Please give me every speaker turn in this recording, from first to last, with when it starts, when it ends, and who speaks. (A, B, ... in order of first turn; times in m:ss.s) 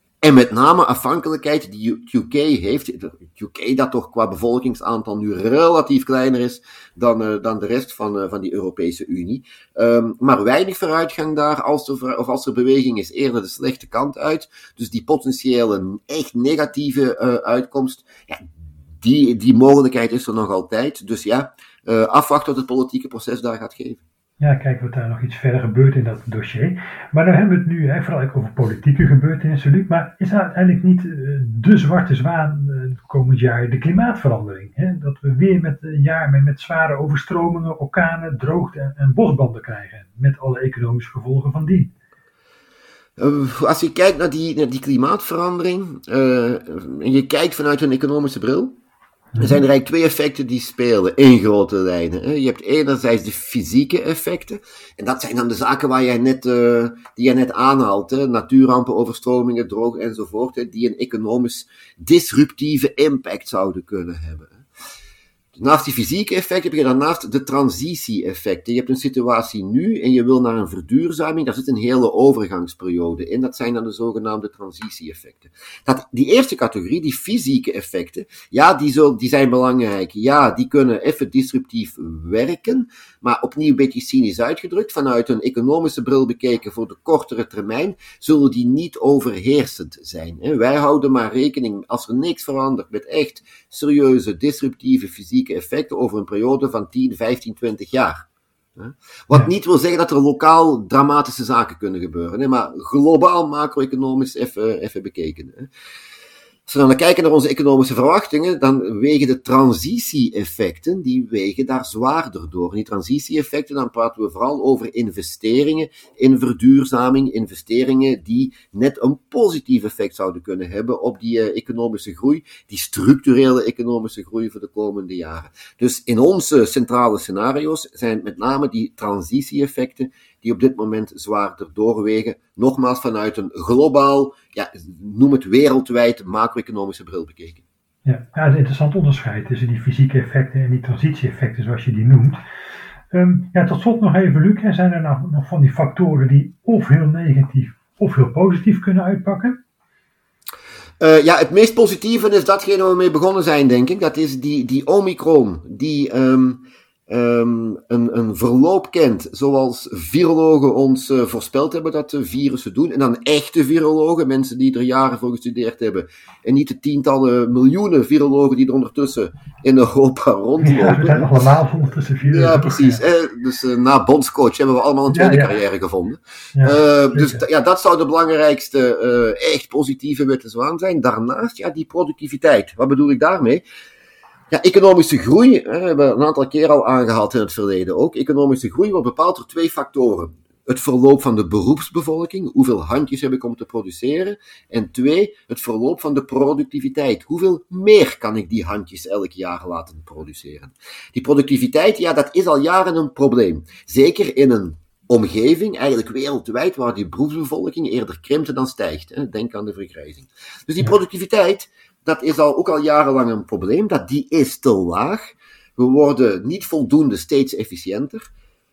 0:00.2-0:18.4 A
0:19.0-0:24.0 A
0:24.4-0:41.9 B
0:43.2-0:48.8 A
0:49.4-1:04.6 A
1:05.6-1:38.2 A
1:38.8-1:45.7 A
1:46.7-2:17.6 A
2:18.0-2:22.4 B
2:23.1-2:29.6 B
2:31.0-2:51.3 A
2:50.6-2:53.0 B
2:52.2-3:03.6 A
2:55.1-2:55.6 B
2:56.5-2:57.4 B
3:04.5-3:38.3 A